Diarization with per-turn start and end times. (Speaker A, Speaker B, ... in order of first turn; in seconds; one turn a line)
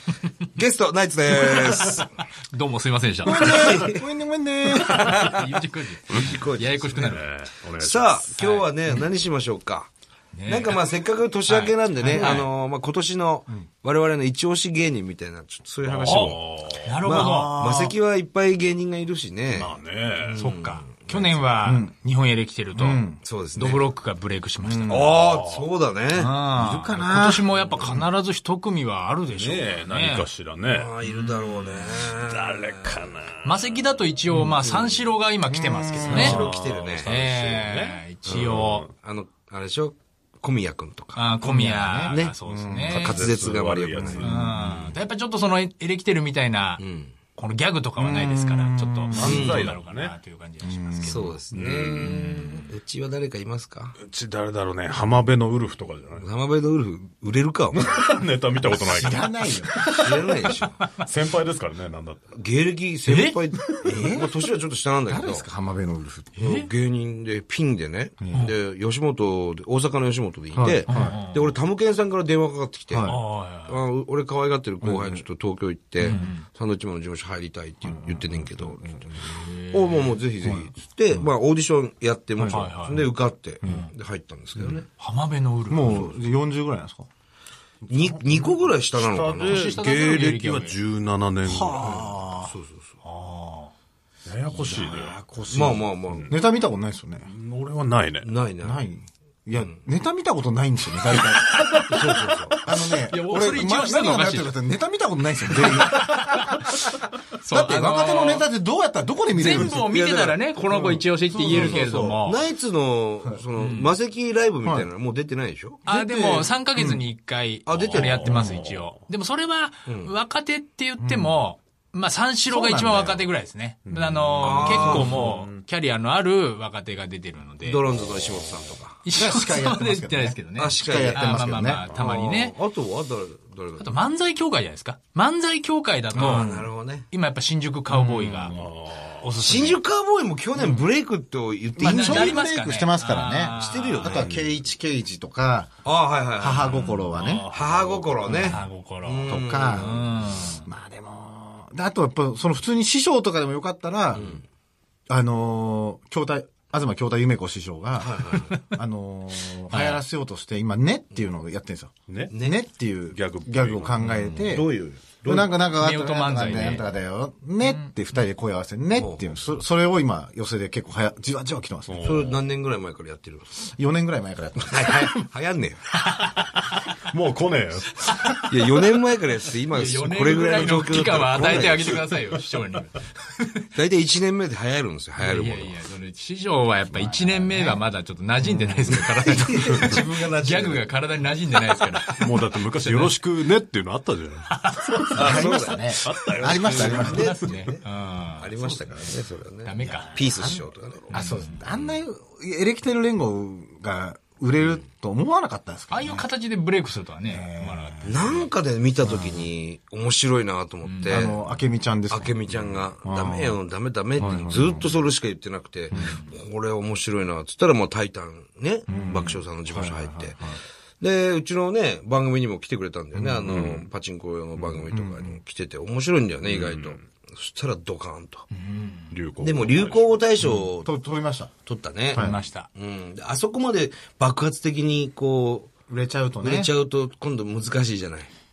Speaker A: 0.5-2.1
Speaker B: 1.6-3.7
Speaker A: 3.2-4.0
Speaker C: 3.2-5.3
Speaker B: 4.7-7.3
Speaker A: 4.9-5.5
Speaker A: 6.1-7.2
Speaker D: 6.9-8.4
Speaker A: 7.8-9.9
Speaker B: 8.4-8.7
Speaker B: 10.3-10.8
Speaker A: 10.4-16.4
Speaker B: 11.5-12.5
Speaker C: 12.0-12.4
Speaker D: 15.8-16.9
Speaker B: 16.0-17.6
Speaker A: 17.0-21.4
Speaker C: 17.1-18.0
Speaker D: 19.5-20.4
Speaker B: 20.4-23.0
Speaker C: 21.6-21.9
Speaker C: 22.7-23.2
Speaker A: 23.2-23.9
Speaker B: 23.5-25.1
Speaker C: 24.6-25.1
Speaker A: 24.9-26.3
Speaker D: 25.1-25.6
Speaker B: 26.1-30.3
Speaker C: 26.5-28.0
Speaker D: 29.3-30.9
Speaker A: 30.7-33.1
Speaker B: 31.1-31.8
Speaker D: 31.8-33.6
Speaker B: 33.4-36.4
Speaker A: 34.5-35.1
Speaker C: 35.5-36.4
Speaker A: 36.1-37.1
Speaker D: 36.1-38.9
Speaker B: 37.0-38.9
Speaker A: 38.2-41.3
Speaker B: 41.1-43.3
Speaker C: 41.4-42.9
Speaker A: 42.1-42.3
Speaker A: 42.9-44.3
Speaker D: 42.9-44.9
Speaker B: 44.2-46.8
Speaker A: 46.8-47.1
Speaker B: 47.3-51.4
Speaker C: 48.0-49.4
Speaker D: 49.1-50.1
Speaker A: 49.2-49.7
Speaker C: 50.6-51.3
Speaker A: 51.0-54.0
Speaker D: 51.5-52.6
Speaker B: 51.9-52.6
Speaker D: 54.0-56.3
Speaker A: 56.2-58.1
Speaker D: 57.7-59.4
Speaker C: 58.7-60.1
Speaker B: 59.8-60.1
Speaker A: 60.0-60.8
Speaker D: 61.0-62.2
Speaker A: 62.3-65.5
Speaker B: 63.1-63.9
Speaker C: 63.8-64.3
Speaker C: 65.1-66.3
Speaker A: 66.3-73.1
Speaker B: 66.4-66.7
Speaker C: 68.2-68.5
Speaker C: 70.5-71.2
Speaker B: 70.9-71.5
Speaker C: 72.9-73.2
Speaker B: 73.0-73.8
Speaker A: 73.6-79.0
Speaker C: 74.8-75.2
Speaker B: 76.0-76.5
Speaker C: 76.0-76.3
Speaker C: 77.9-79.4
Speaker B: 79.2-80.2
Speaker A: 79.7-84.9
Speaker C: 80.4-81.3
Speaker C: 82.4-82.7
Speaker B: 82.4-83.1
Speaker B: 83.6-83.9
Speaker B: 85.0-86.1
Speaker C: 85.7-87.1
Speaker A: 87.9-89.7
Speaker C: 87.9-88.5
Speaker D: 88.9-92.1
Speaker B: 89.4-90.8
Speaker C: 91.4-92.5
Speaker A: 91.8-92.9
Speaker B: 93.0-93.7
Speaker D: 94.2-96.4
Speaker C: 94.6-95.7
Speaker A: 95.5-96.3
Speaker C: 96.3-97.3
Speaker D: 97.2-98.3
Speaker A: 98.2-98.8
Speaker C: 98.6-106.8
Speaker B: 101.7-104.5
Speaker D: 101.9-102.5
Speaker B: 105.5-106.7
Speaker B: 107.3-108.5
Speaker C: 107.5-109.9
Speaker B: 109.3-112.5
Speaker A: 109.5-115.8
Speaker C: 110.8-112.2
Speaker B: 113.6-114.0
Speaker B: 115.8-127.8
Speaker C: 115.8-117.0
Speaker A: 117.7-118.5
Speaker D: 117.7-119.0
Speaker A: 119.8-120.1
Speaker C: 121.0-121.4
Speaker C: 122.5-123.3
Speaker D: 123.9-125.6
Speaker A: 124.4-125.1
Speaker A: 127.6-129.0
Speaker D: 128.0-128.7
Speaker B: 129.0-132.5
Speaker C: 129.1-131.8
Speaker A: 130.6-133.9
Speaker B: 133.8-136.5
Speaker A: 136.1-137.1
Speaker C: 136.2-136.6
Speaker B: 137.1-138.7
Speaker D: 138.1-139.3
Speaker B: 139.2-139.8
Speaker A: 139.4-142.4
Speaker C: 141.8-145.8
Speaker B: 141.8-144.2
Speaker A: 143.6-144.2
Speaker D: 144.1-144.6
Speaker A: 145.8-146.7
Speaker C: 146.4-147.5
Speaker B: 146.6-147.1
Speaker D: 147.1-148.6
Speaker A: 147.5-150.1
Speaker B: 148.3-150.7
Speaker C: 149.3-150.1
Speaker C: 150.6-154.3
Speaker A: 154.1-154.4
Speaker C: 155.1-164.7
Speaker A: 158.0-158.6
Speaker B: 159.7-160.0
Speaker D: 162.1-162.3
Speaker A: 162.3-162.6
Speaker D: 163.1-164.4
Speaker A: 164.1-165.5
Speaker C: 165.2-172.2
Speaker B: 165.7-166.9
Speaker B: 167.6-167.9
Speaker A: 168.9-169.2
Speaker D: 171.9-172.4
Speaker A: 172.0-173.5
Speaker C: 173.5-175.2
Speaker A: 174.6-175.8
Speaker B: 176.1-176.8
Speaker D: 177.1-178.4
Speaker B: 178.0-178.4
Speaker A: 178.5-182.0
Speaker B: 179.7-183.6
Speaker A: 183.7-185.8
Speaker B: 185.2-193.2
Speaker C: 186.9-187.8
Speaker A: 188.5-190.9
Speaker C: 189.2-189.9
Speaker D: 192.2-197.6
Speaker B: 194.6-195.2
Speaker C: 195.1-197.3
Speaker A: 195.1-202.0
Speaker B: 196.9-199.1
Speaker B: 199.6-200.3
Speaker C: 199.8-206.3
Speaker B: 201.1-201.6
Speaker B: 205.9-208.5
Speaker C: 207.2-208.2
Speaker A: 208.0-211.3
Speaker B: 210.8-211.3
Speaker C: 211.1-212.4
Speaker A: 212.1-220.4
Speaker C: 213.0-213.6
Speaker C: 214.2-214.9
Speaker D: 214.2-214.8
Speaker C: 215.9-216.2
Speaker B: 215.9-216.2
Speaker C: 218.9-220.6
Speaker B: 218.9-219.2
Speaker A: 221.0-228.5
Speaker C: 223.2-223.5
Speaker D: 223.4-223.9
Speaker C: 224.9-225.4
Speaker D: 226.4-227.0
Speaker B: 228.5-229.2
Speaker D: 229.1-230.2
Speaker A: 229.4-230.9
Speaker C: 230.4-231.5
Speaker A: 231.6-235.7
Speaker C: 232.1-232.4
Speaker B: 232.1-232.7
Speaker C: 235.9-236.7
Speaker A: 236.4-238.3